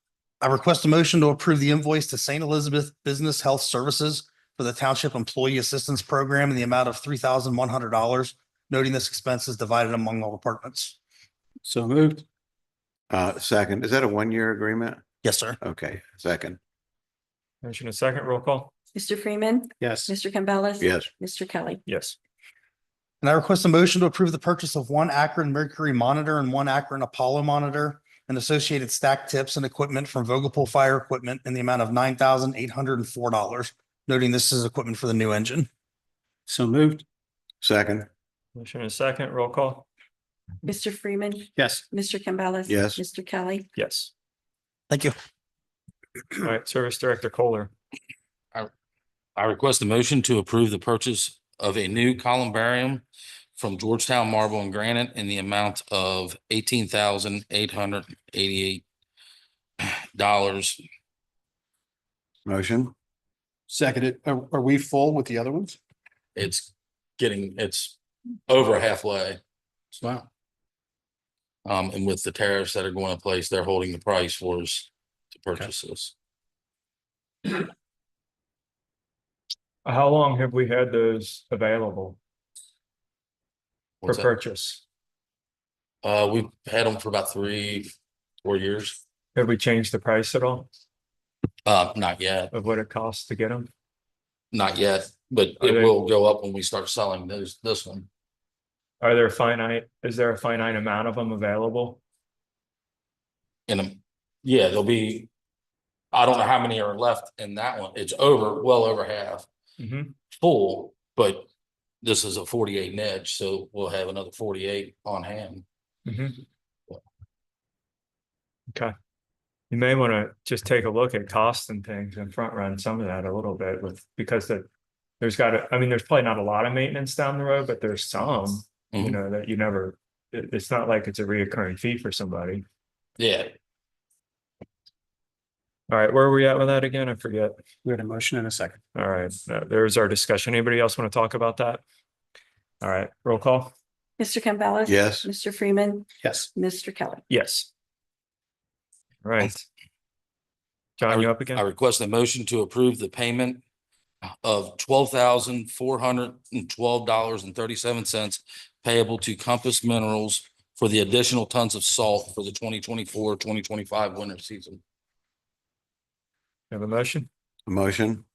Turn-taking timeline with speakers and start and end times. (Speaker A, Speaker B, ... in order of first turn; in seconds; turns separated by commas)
Speaker A: 0.4-10.9, Speaker B: 11.6-12.2, Speaker C: 13.1-15.0, Speaker A: 15.2-15.6, Speaker C: 15.6-16.6, Speaker D: 17.6-18.7, Speaker E: 18.9-21.8, Speaker B: 19.8-20.1, Speaker C: 20.8-21.1, Speaker D: 21.9-22.2, Speaker A: 23.2-35.7, Speaker B: 36.5-37.0, Speaker C: 37.6-38.1, Speaker D: 38.6-39.9, Speaker E: 40.6-43.7, Speaker B: 41.6-41.8, Speaker C: 42.7-43.0, Speaker D: 43.7-44.1, Speaker A: 44.9-45.2, Speaker D: 46.4-47.7, Speaker F: 49.4-53.0, Speaker F: 53.6-58.8, Speaker F: 59.8-60.8, Speaker C: 62.5-62.9, Speaker B: 63.7-65.8, Speaker F: 66.4-68.0, Speaker F: 68.5-69.4, Speaker F: 69.9-70.3, Speaker F: 71.7-76.1, Speaker D: 79.8-82.2, Speaker F: 84.0-84.3, Speaker D: 84.0-84.8, Speaker F: 86.0-87.9, Speaker F: 88.4-89.0, Speaker D: 89.3-90.7, Speaker F: 91.7-92.5, Speaker D: 92.5-93.7, Speaker F: 94.5-98.1, Speaker D: 95.6-95.9, Speaker D: 99.0-102.0, Speaker F: 103.7-105.3, Speaker F: 106.1-109.5, Speaker D: 109.8-110.2, Speaker F: 110.3-111.5, Speaker F: 112.0-115.6, Speaker D: 116.1-116.4, Speaker D: 119.7-124.7, Speaker D: 125.2-132.7, Speaker F: 128.9-129.2, Speaker F: 133.2-133.5, Speaker D: 135.9-137.6, Speaker B: 137.8-138.8, Speaker D: 138.9-141.8, Speaker D: 142.8-143.7, Speaker E: 144.2-147.2, Speaker C: 144.9-145.3, Speaker B: 146.2-146.5, Speaker D: 147.3-147.7, Speaker D: 149.2-149.6, Speaker D: 151.0-151.6, Speaker F: 151.1-153.6, Speaker F: 154.4-164.8, Speaker D: 166.7-167.3, Speaker C: 167.7-168.2